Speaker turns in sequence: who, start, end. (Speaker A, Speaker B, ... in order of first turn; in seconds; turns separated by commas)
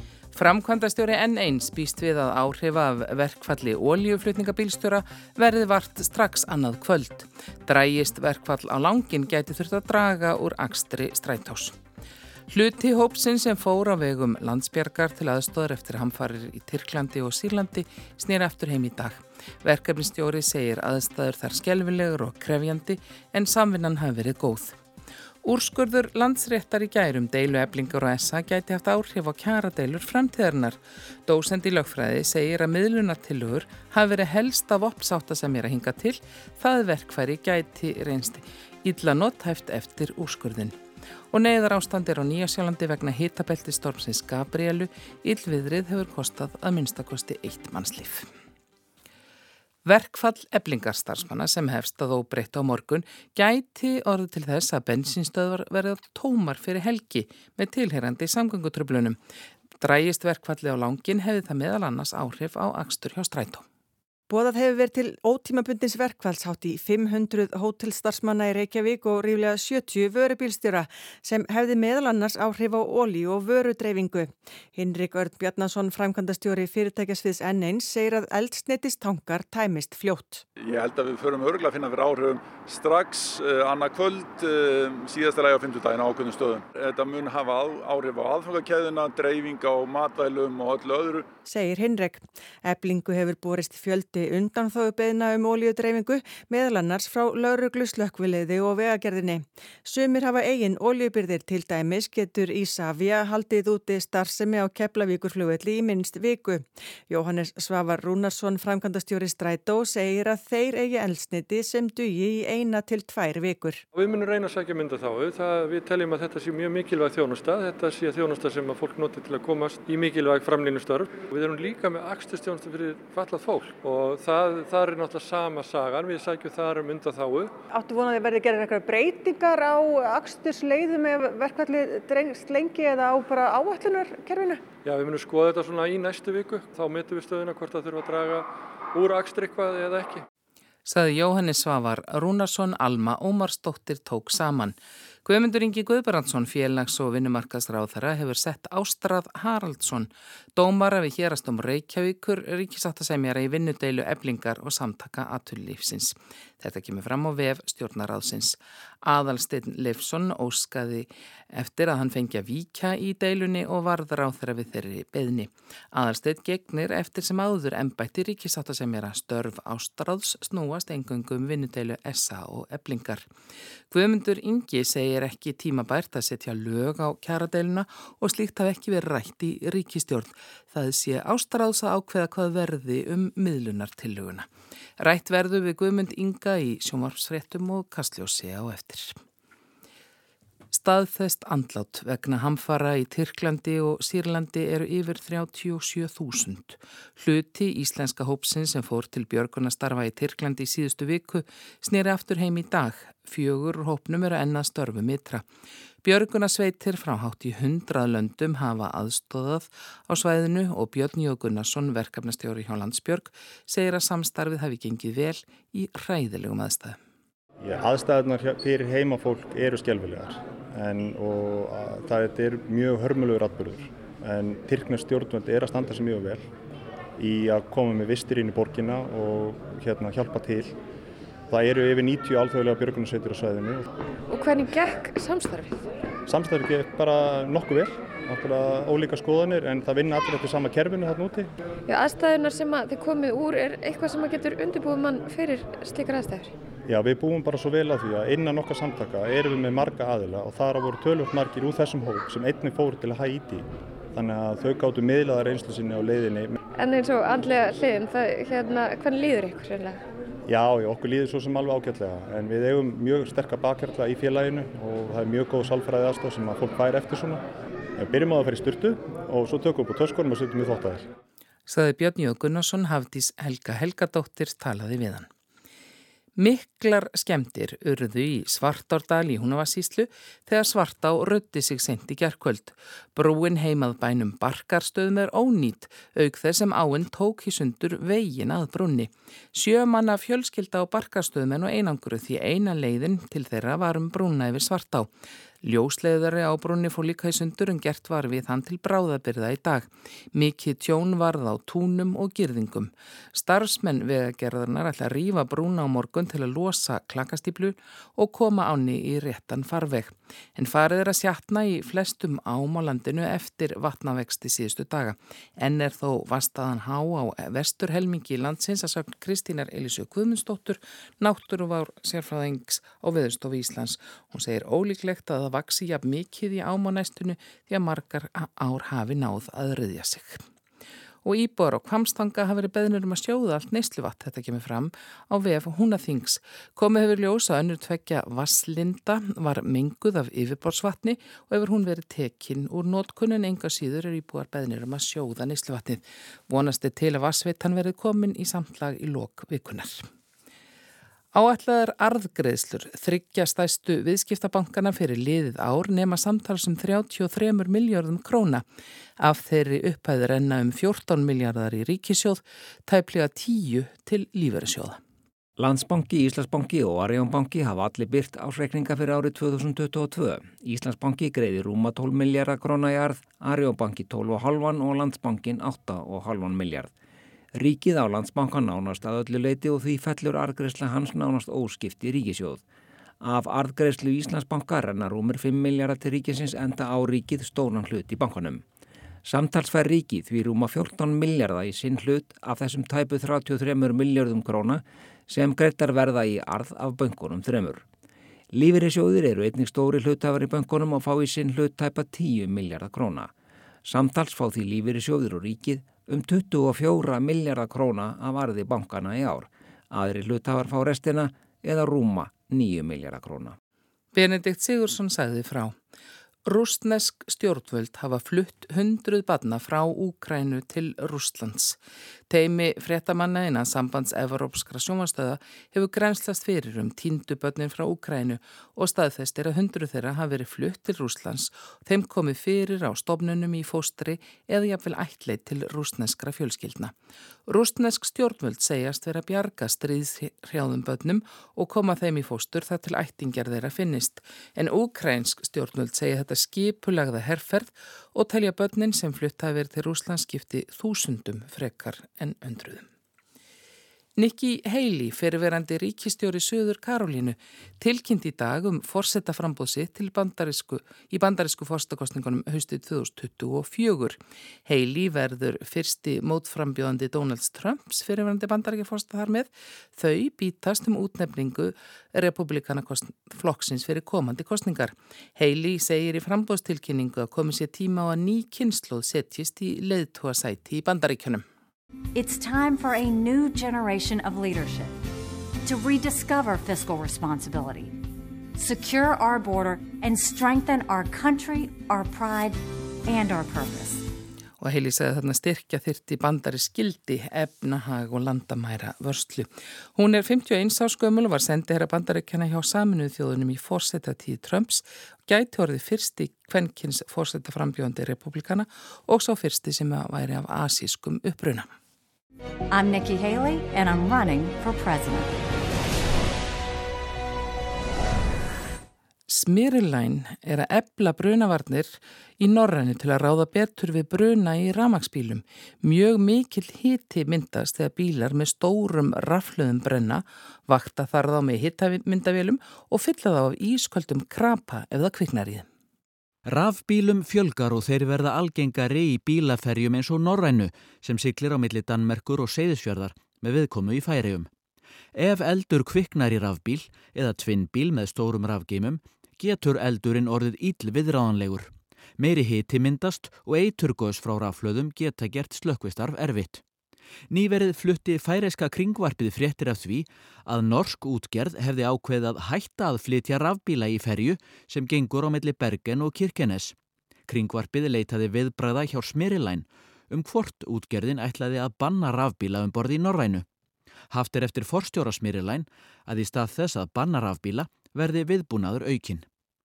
Speaker A: 0.3-11.8, Speaker A: 12.5-24.7, Speaker A: 25.4-40.8, Speaker A: 41.3-48.3, Speaker A: 49.8-59.2, Speaker A: 59.8-63.6, Speaker B: 64.3-80.4, Speaker C: 80.6-91.3, Speaker B: 91.4-113.8, Speaker D: 113.9-127.5, Speaker B: 127.7-134.6, Speaker D: 134.8-140.2, Speaker A: 140.8-173.3, Speaker A: 173.9-184.5, Speaker A: 185.0-189.2, Speaker A: 190.7-205.4, Speaker A: 206.0-217.0, Speaker E: 217.6-226.4, Speaker E: 227.2-230.7, Speaker E: 231.5-233.9, Speaker F: 234.3-235.9, Speaker E: 236.2-241.5, Speaker F: 241.9-246.5, Speaker E: 246.8-256.6, Speaker F: 256.8-260.0, Speaker E: 260.5-267.4, Speaker E: 268.0-271.1, Speaker A: 271.7-275.3, Speaker A: 276.4-295.1, Speaker A: 295.6-330.4, Speaker A: 331.2-350.1, Speaker A: 351.3-358.6, Speaker A: 359.2-365.0, Speaker G: 365.6-376.9, Speaker G: 377.5-382.6, Speaker G: 383.2-388.6, Speaker G: 389.2-397.8, Speaker G: 398.5-403.3, Speaker G: 403.8-413.6, Speaker A: 414.1-415.7, Speaker A: 416.4-421.8, Speaker A: 422.3-436.9, Speaker A: 437.5-452.9, Speaker A: 454.2-481.4, Speaker H: 482.1-485.0, Speaker H: 485.6-488.0, Speaker H: 488.5-494.1, Speaker A: 494.6-511.7, Speaker H: 512.7-515.4, Speaker A: 519.3-535.6, Speaker I: 536.5-544.5, Speaker I: 545.1-556.6, Speaker I: 557.3-566.7, Speaker I: 567.3-573.5, Speaker I: 574.1-579.2